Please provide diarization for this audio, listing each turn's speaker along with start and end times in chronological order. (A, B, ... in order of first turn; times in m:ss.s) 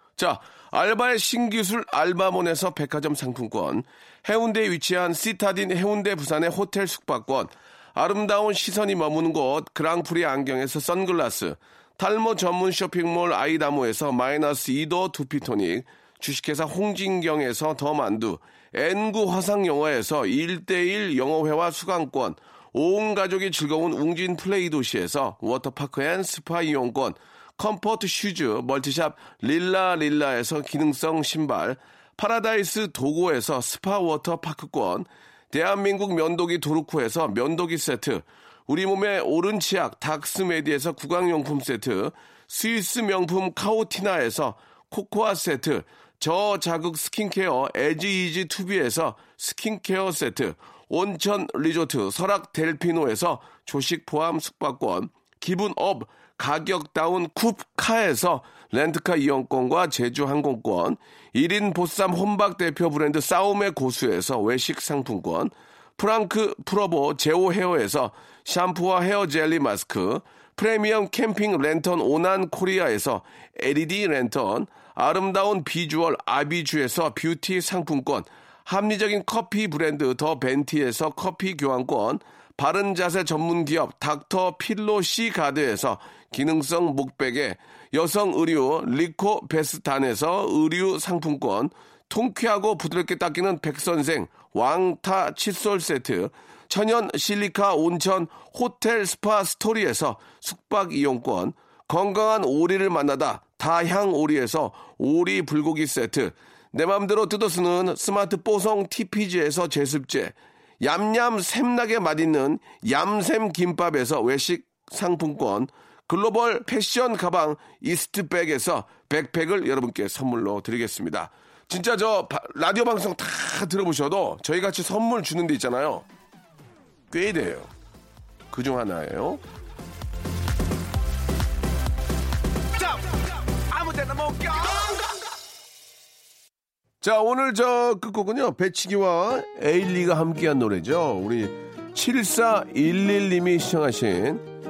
0:00.2-2:06.1 A
2:07.1-2:07.7 A
2:08.5-2:09.4 A
2:13.7-2:14.9 A
2:17.0-2:24.5 A